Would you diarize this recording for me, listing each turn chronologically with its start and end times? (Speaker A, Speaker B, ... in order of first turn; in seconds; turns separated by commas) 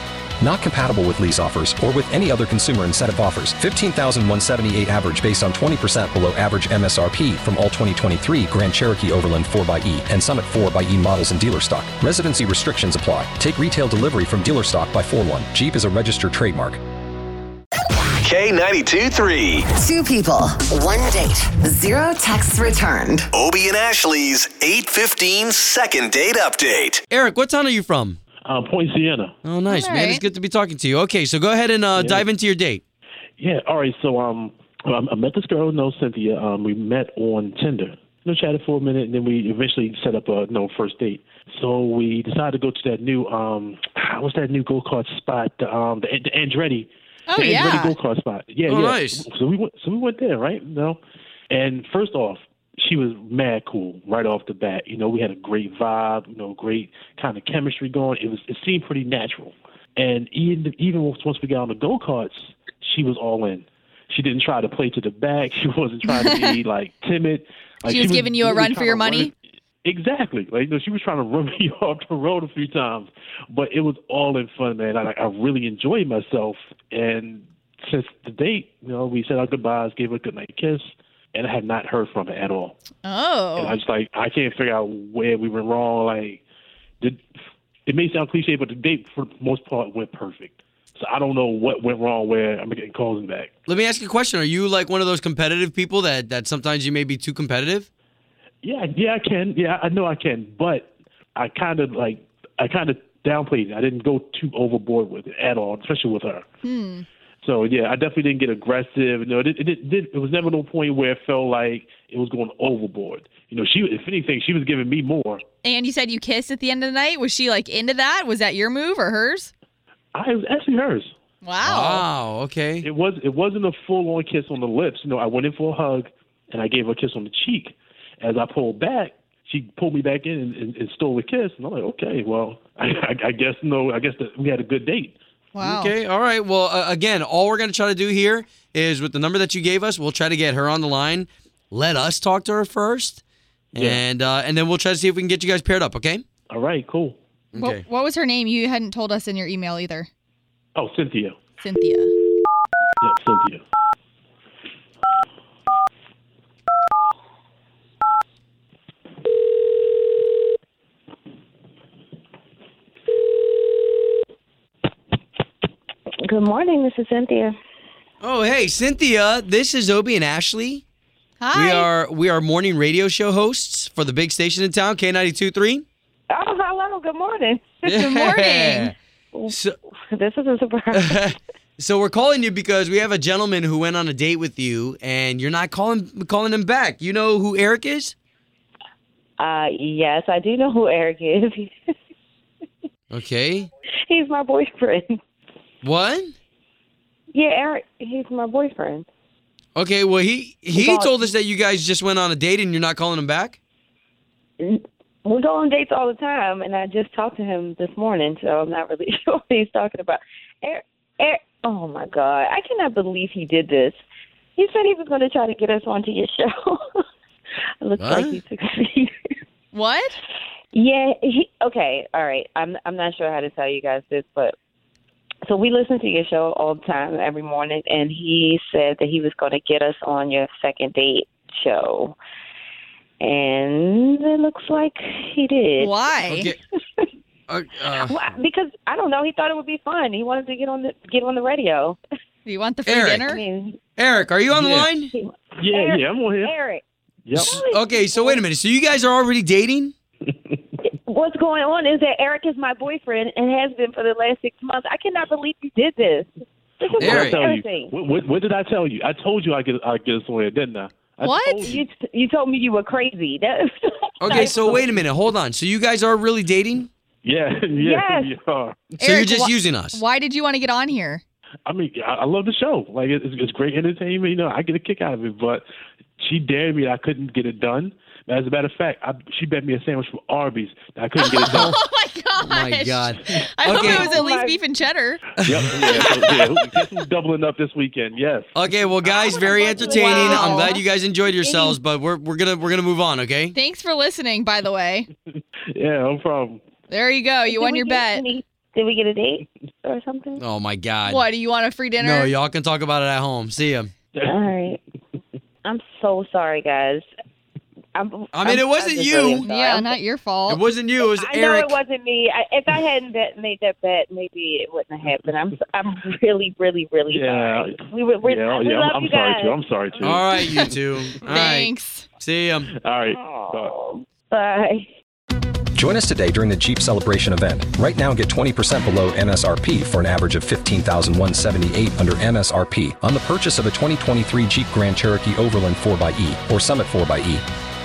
Speaker A: 0.4-16.8, Speaker B: 18.2-19.7, Speaker C: 19.7-23.4, Speaker B: 23.4-27.0, Speaker D: 27.1-28.2, Speaker E: 28.4-29.4, Speaker D: 29.4-32.8, Speaker F: 29.7-30.2, Speaker E: 31.9-32.3, Speaker E: 33.4-51.0, Speaker F: 47.3-48.0, Speaker D: 48.7-49.3, Speaker E: 51.5-69.3, Speaker F: 66.1-66.6, Speaker F: 67.9-69.3, Speaker E: 69.8-82.8, Speaker F: 83.0-83.8, Speaker E: 83.5-86.4, Speaker E: 87.9-93.5, Speaker D: 93.7-97.9, Speaker E: 98.6-106.5, Speaker F: 106.6-107.1, Speaker E: 107.4-115.4, Speaker F: 115.6-119.5, Speaker E: 120.1-121.1, Speaker F: 121.4-122.1, Speaker D: 121.6-122.9, Speaker E: 122.8-135.2, Speaker F: 135.6-135.9, Speaker D: 135.6-143.2, Speaker D: 143.7-146.2, Speaker E: 143.8-144.0, Speaker E: 146.5-147.2, Speaker D: 147.5-147.8, Speaker F: 147.6-150.1, Speaker E: 150.8-151.4, Speaker F: 151.6-152.1, Speaker E: 153.0-153.6, Speaker G: 166.2-167.6, Speaker D: 168.2-170.8, Speaker F: 171.4-171.9, Speaker D: 171.5-175.8, Speaker G: 176.3-179.6, Speaker D: 177.8-178.9, Speaker F: 178.0-178.9, Speaker D: 179.5-179.8, Speaker G: 180.1-181.3, Speaker D: 180.9-188.2, Speaker G: 189.4-191.7, Speaker D: 193.1-193.7, Speaker G: 194.1-195.2, Speaker D: 195.8-196.3, Speaker G: 197.3-199.1, Speaker D: 199.8-203.6, Speaker G: 200.7-201.2, Speaker G: 204.6-214.0, Speaker G: 214.6-216.8, Speaker G: 217.8-219.1, Speaker D: 218.0-218.4, Speaker F: 219.7-220.2, Speaker G: 220.7-224.6, Speaker G: 225.5-232.2, Speaker G: 233.2-235.9, Speaker F: 235.8-236.5, Speaker D: 236.2-236.6, Speaker D: 237.5-238.3, Speaker G: 237.9-242.0, Speaker F: 242.5-243.4, Speaker D: 242.9-243.2, Speaker G: 243.2-243.8, Speaker D: 244.0-245.1, Speaker E: 244.5-244.9, Speaker G: 245.1-246.8, Speaker E: 245.6-246.6, Speaker E: 247.2-247.6, Speaker G: 247.3-248.4, Speaker D: 247.4-249.9, Speaker G: 250.8-257.9, Speaker E: 257.0-261.8, Speaker D: 257.0-257.4, Speaker F: 261.2-261.7, Speaker G: 261.6-264.9, Speaker D: 264.2-266.9, Speaker E: 267.2-269.0, Speaker G: 267.8-268.3, Speaker F: 269.0-271.2, Speaker D: 269.0-270.0, Speaker E: 271.7-275.6, Speaker E: 276.2-281.8, Speaker F: 281.2-285.4, Speaker D: 281.5-281.8, Speaker D: 282.4-284.2, Speaker G: 283.7-284.6, Speaker D: 285.4-286.5, Speaker E: 285.4-288.6, Speaker D: 288.6-293.6, Speaker G: 289.1-290.8, Speaker F: 289.8-290.8, Speaker G: 291.4-291.8, Speaker F: 293.5-295.1, Speaker E: 295.7-296.6, Speaker F: 296.9-298.3, Speaker G: 297.5-300.4, Speaker D: 300.4-301.2, Speaker F: 301.1-302.3, Speaker D: 302.0-303.9, Speaker G: 304.2-304.8, Speaker G: 305.6-307.1, Speaker G: 307.9-310.0, Speaker D: 308.3-309.5, Speaker F: 309.4-310.6, Speaker D: 310.5-311.8, Speaker G: 311.0-320.2, Speaker E: 317.1-320.7, Speaker D: 320.0-322.7, Speaker F: 321.3-322.1, Speaker E: 322.7-323.7, Speaker G: 323.1-324.9, Speaker A: 325.8-337.5